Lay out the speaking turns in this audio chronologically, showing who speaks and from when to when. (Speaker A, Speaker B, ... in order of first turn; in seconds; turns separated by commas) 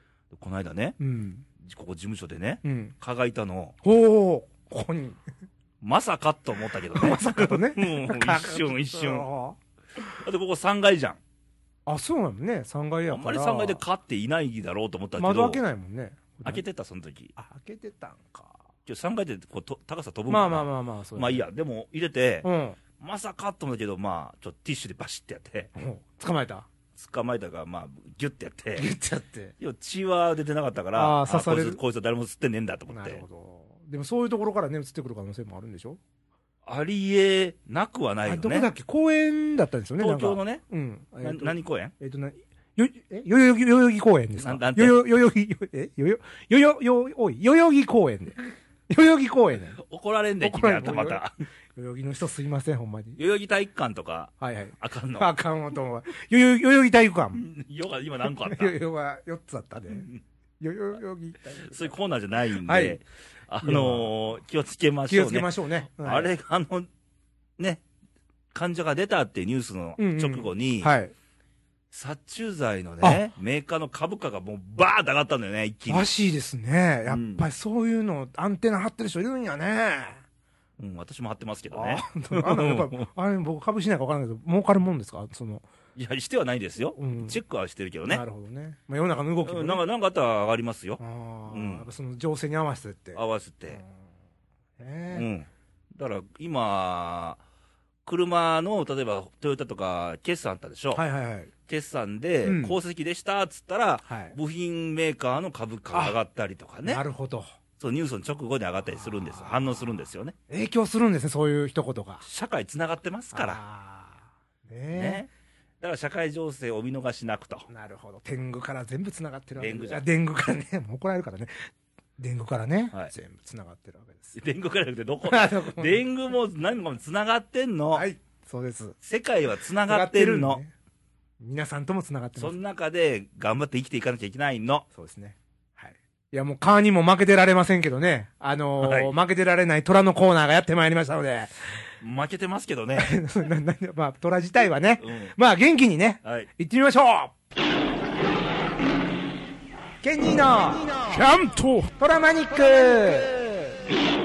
Speaker A: 0.3-1.0, Speaker B: 1.0-1.4, Speaker A: 1.6-3.8, Speaker B: 2.6-2.9, Speaker B: 3.8-5.2, Speaker A: 5.8-9.3, Speaker B: 6.9-9.6, Speaker A: 10.2-11.2, Speaker B: 11.9-13.8, Speaker A: 13.1-15.6, Speaker B: 15.2-16.6, Speaker A: 16.4-17.3, Speaker B: 17.4-18.6, Speaker A: 18.9-22.5, Speaker B: 20.3-21.4, Speaker B: 22.4-22.8, Speaker A: 23.0-25.7, Speaker B: 25.8-26.7, Speaker A: 26.9-28.9, Speaker B: 28.8-29.6, Speaker A: 29.6-33.2, Speaker B: 30.9-31.8, Speaker B: 32.9-36.0, Speaker A: 36.6-38.7, Speaker B: 38.3-49.8, Speaker A: 40.0-40.6, Speaker A: 41.2-41.9, Speaker A: 44.4-45.0, Speaker A: 49.8-51.3, Speaker B: 50.4-51.2, Speaker B: 51.8-53.2, Speaker A: 53.2-55.3, Speaker B: 54.4-57.5, Speaker A: 57.3-58.7, Speaker B: 58.3-60.1, Speaker A: 59.9-60.2, Speaker B: 60.6-61.9, Speaker A: 61.6-66.9, Speaker B: 62.6-63.0, Speaker B: 63.6-64.2, Speaker B: 65.1-66.3, Speaker A: 68.5-70.9, Speaker B: 70.0-71.1, Speaker A: 71.9-76.1, Speaker B: 73.0-73.3, Speaker B: 75.9-80.2, Speaker A: 77.1-77.4, Speaker A: 80.8-83.1, Speaker B: 81.7-85.7, Speaker A: 86.0-88.2, Speaker B: 87.0-87.4, Speaker B: 88.1-89.8, Speaker A: 89.5-91.9, Speaker B: 91.0-93.9, Speaker A: 93.2-93.8, Speaker B: 94.8-95.3, Speaker A: 95.1-97.4, Speaker A: 98.0-101.0, Speaker B: 100.9-101.5, Speaker A: 101.7-107.0, Speaker B: 102.4-102.8, Speaker B: 104.1-104.4, Speaker B: 105.9-106.2, Speaker B: 106.8-107.5, Speaker A: 107.8-110.3, Speaker B: 109.0-109.7, Speaker B: 110.5-112.2, Speaker A: 112.2-113.6, Speaker B: 113.3-115.3, Speaker A: 114.9-115.3, Speaker A: 115.8-117.7, Speaker B: 117.7-121.7, Speaker A: 119.6-120.0, Speaker B: 122.2-124.4, Speaker A: 124.3-128.1, Speaker B: 125.2-126.0, Speaker B: 127.9-129.0, Speaker A: 129.0-130.6, Speaker B: 129.9-130.7, Speaker B: 131.4-132.6, Speaker A: 132.4-134.9, Speaker B: 134.9-141.5, Speaker A: 138.8-139.1, Speaker A: 142.0-143.1, Speaker B: 143.0-147.3, Speaker A: 145.0-145.3, Speaker A: 146.2-146.5, Speaker B: 150.0-153.5